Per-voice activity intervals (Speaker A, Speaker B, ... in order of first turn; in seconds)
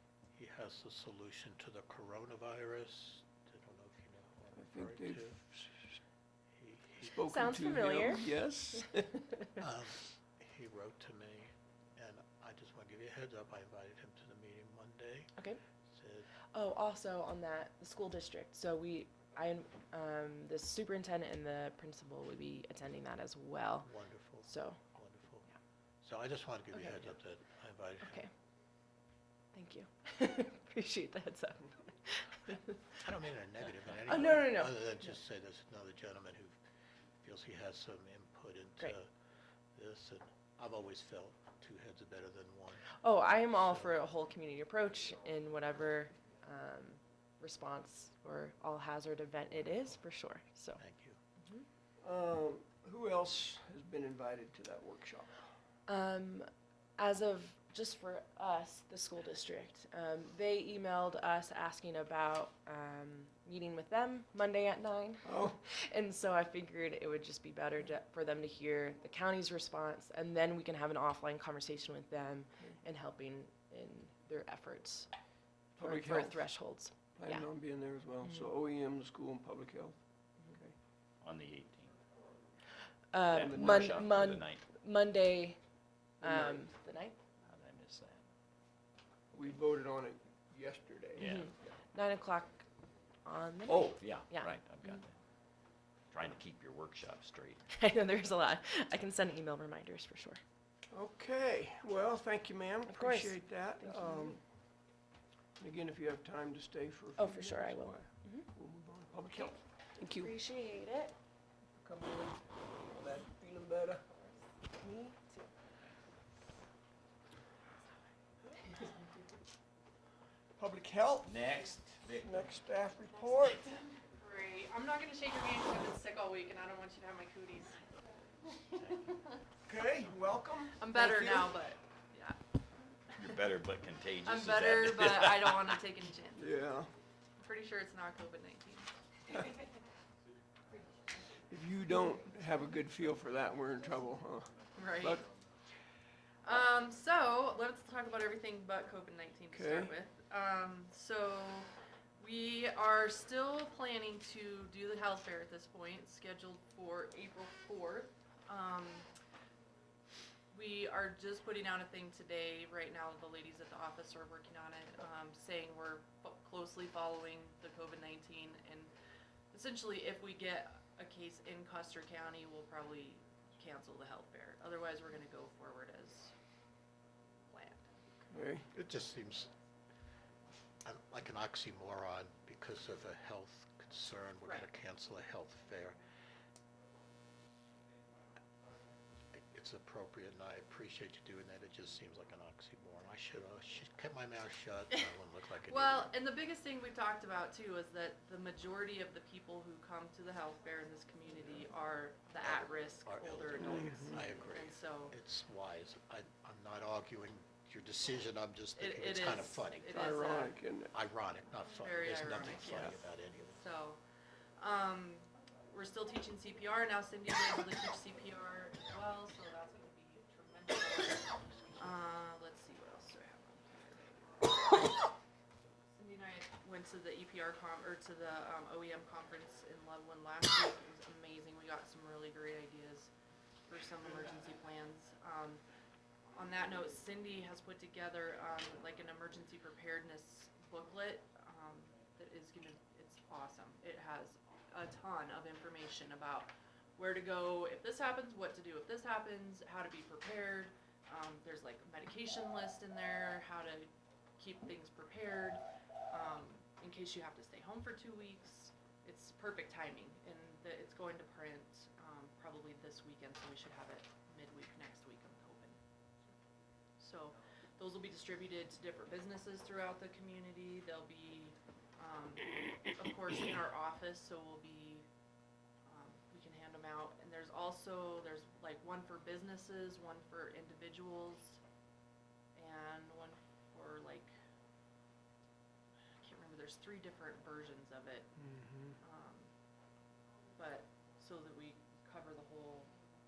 Speaker A: 0.3-5.4, 6.5-7.1, 9.6-15.3, 15.9-16.3, 23.8-25.5, 26.0-28.2, 33.0-36.6, 37.2-39.1, 39.7-42.9, 43.5-44.0, 50.8-51.2, 178.7-179.5, 180.8-186.0, 189.3-196.1, 202.4-210.4, 210.9-213.6
Speaker B: 4.5-6.0, 7.0-9.1, 52.0-55.5, 65.2-65.6, 75.8-80.8, 83.5-84.1, 86.2-86.6, 89.3-91.7, 100.9-104.4, 105.6-110.3, 111.8-114.2, 120.6-121.3, 122.2-123.7, 129.6-131.5, 136.3-136.9, 141.5-145.2, 149.5-149.9, 178.3-178.7, 203.6-204.2, 209.9-210.9, 288.4-289.0
Speaker C: 7.2-8.4, 9.1-9.4, 16.5-23.9, 24.4-24.8, 28.0-28.3, 29.5-33.0, 34.1-35.1, 43.0-50.8, 55.9-75.1, 75.8-77.5, 83.1-85.6, 86.2-87.2, 91.2-92.7, 93.2-95.0, 97.7-100.4, 102.9-104.4, 107.2-108.5, 109.3-111.1, 114.7-115.5
Speaker D: 81.2-81.9, 83.3-84.6, 87.5-88.2, 91.2-91.5, 93.7-95.2, 96.1-97.6, 121.2-122.5, 133.1-135.7
Speaker E: 123.5-127.8, 130.7-132.4, 133.1-133.5, 134.2-136.5, 137.4-139.4, 144.7-145.2, 146.4-159.1, 160.5-168.9, 169.5-176.3, 177.5-177.9, 195.7-205.1, 208.7-210.6, 211.8-214.0, 214.6-224.2, 225.9-233.1, 233.7-235.6, 236.3-265.8, 267.0-275.1, 275.9-281.6, 282.5-284.3, 286.2-288.3, 289.0-289.5, 290.6-292.9